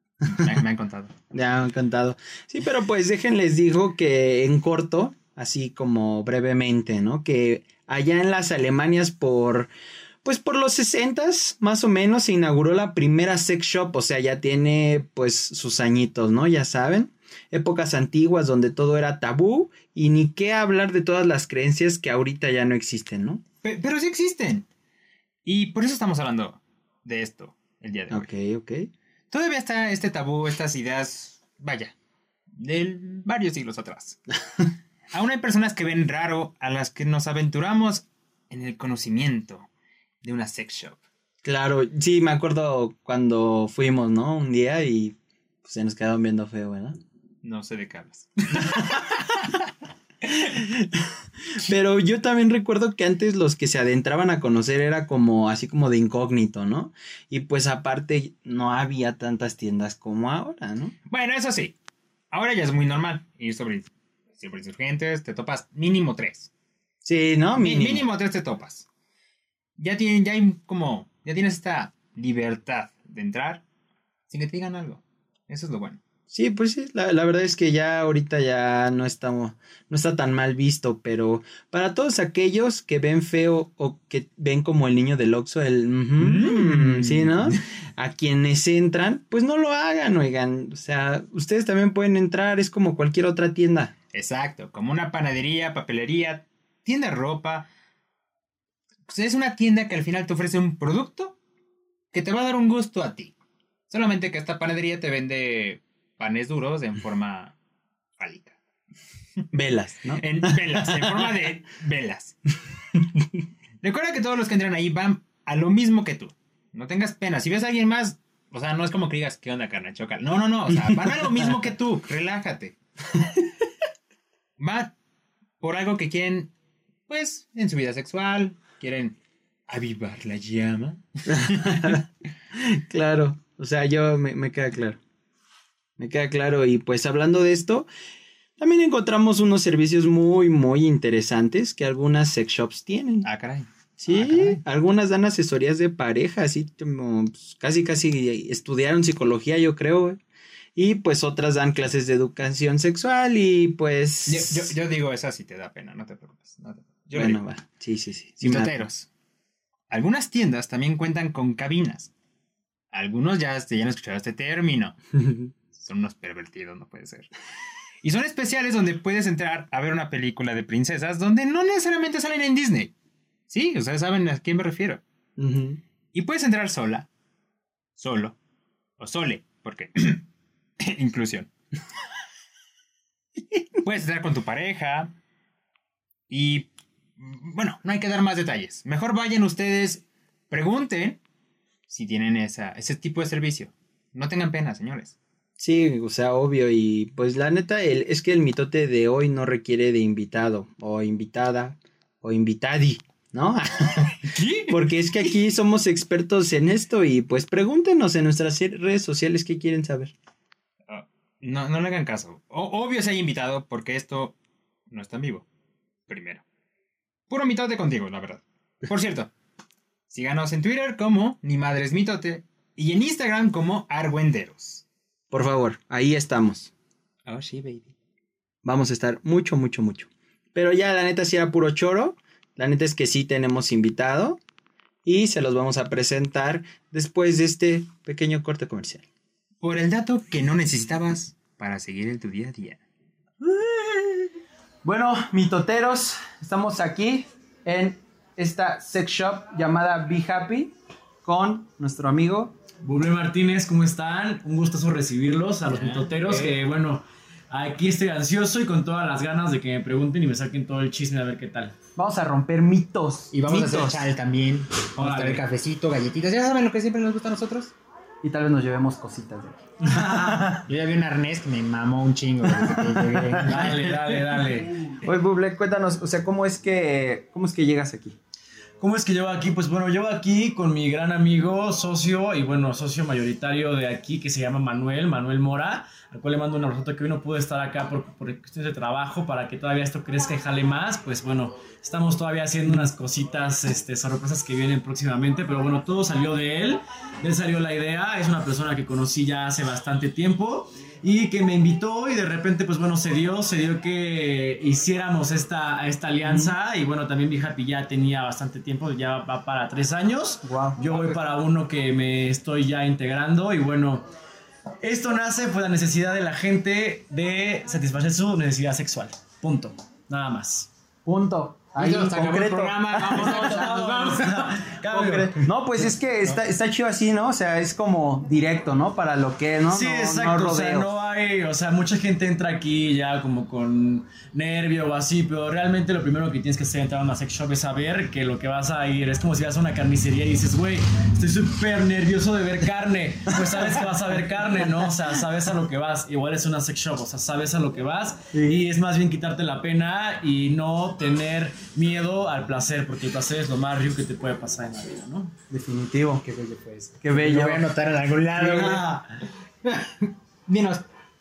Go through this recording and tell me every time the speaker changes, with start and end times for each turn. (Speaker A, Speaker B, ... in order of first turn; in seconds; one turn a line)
Speaker A: 0.3-1.2
Speaker B: 1.3-9.7
Speaker B: 10.2-23.4
Speaker A: 23.6-24.7
Speaker A: 25.5-28.3
Speaker B: 28.1-28.9
Speaker A: 29.3-31.9
Speaker A: 32.6-34.2
Speaker A: 35.1-39.7
Speaker A: 40.2-41.0
Speaker B: 41.4-47.0
Speaker A: 47.4-49.6
Speaker B: 50.4-50.9
Speaker B: 51.6-60.9
Speaker A: 61.1-61.8
Speaker A: 62.3-66.5
Speaker B: 67.0-68.1
Speaker A: 67.6-68.8
Speaker A: 69.8-73.6
Speaker A: 74.3-76.0
Speaker B: 76.3-93.9
Speaker A: 86.2-87.6
Speaker A: 94.1-97.7
Speaker A: 99.1-101.4
Speaker A: 102.1-103.3
Speaker A: 103.9-107.5
Speaker A: 108.2-108.6
Speaker B: 109.5-111.3
Speaker A: 110.2-112.4
Speaker A: 113.8-122.8
Speaker A: 124.6-124.9
Speaker A: 125.6-126.5
Speaker A: 127.1-129.2
Speaker A: 129.7-132.0
Speaker B: 131.3-132.0
Speaker B: 132.5-135.0
Speaker B: 136.0-137.9
Speaker B: 138.6-143.3
Speaker A: 143.2-144.6
Speaker B: 144.0-150.2
Speaker B: 150.8-154.7
Speaker A: 154.3-157.4
Speaker B: 157.1-158.7
Speaker A: 158.4-159.1
Speaker A: 159.9-162.1
Speaker A: 162.9-165.0
Speaker B: 165.2-165.5
Speaker A: 165.7-167.3
Speaker A: 168.0-172.9
Speaker A: 173.5-175.0
Speaker B: 175.4-175.8
Speaker A: 176.1-177.1
Speaker A: 178.0-178.4
Speaker A: 179.0-180.3
Speaker A: 180.8-181.5
Speaker A: 183.8-185.1
Speaker A: 186.3-191.2
Speaker A: 191.9-195.2
Speaker B: 195.6-210.1
Speaker A: 204.2-205.0
Speaker A: 210.9-214.3
Speaker A: 214.9-215.5
Speaker A: 216.1-216.4
Speaker A: 217.3-219.3
Speaker A: 220.1-224.8
Speaker B: 225.3-226.7
Speaker A: 227.3-227.9
Speaker B: 228.6-234.4
Speaker B: 235.0-239.0
Speaker A: 239.6-242.8
Speaker B: 243.4-244.3
Speaker B: 244.8-252.6
Speaker C: 252.8-261.8
Speaker A: 255.7-256.6
Speaker B: 262.0-264.1
Speaker A: 263.3-267.7
Speaker C: 265.0-265.4
Speaker B: 268.2-270.6
Speaker C: 269.8-270.6
Speaker A: 270.7-274.2
Speaker B: 272.6-273.6
Speaker C: 273.4-274.9
Speaker B: 275.0-278.2
Speaker C: 278.8-314.1
Speaker B: 306.2-306.6
Speaker B: 310.4-310.8
Speaker C: 314.8-320.7
Speaker B: 321.0-323.8
Speaker A: 321.8-324.7
Speaker C: 323.1-325.4
Speaker B: 324.9-330.9
Speaker A: 325.9-326.3
Speaker C: 329.7-355.3
Speaker B: 343.4-343.9
Speaker B: 348.3-348.6
Speaker B: 355.5-356.2
Speaker A: 356.2-358.9
Speaker B: 357.0-357.7
Speaker C: 358.4-359.1
Speaker A: 359.6-360.8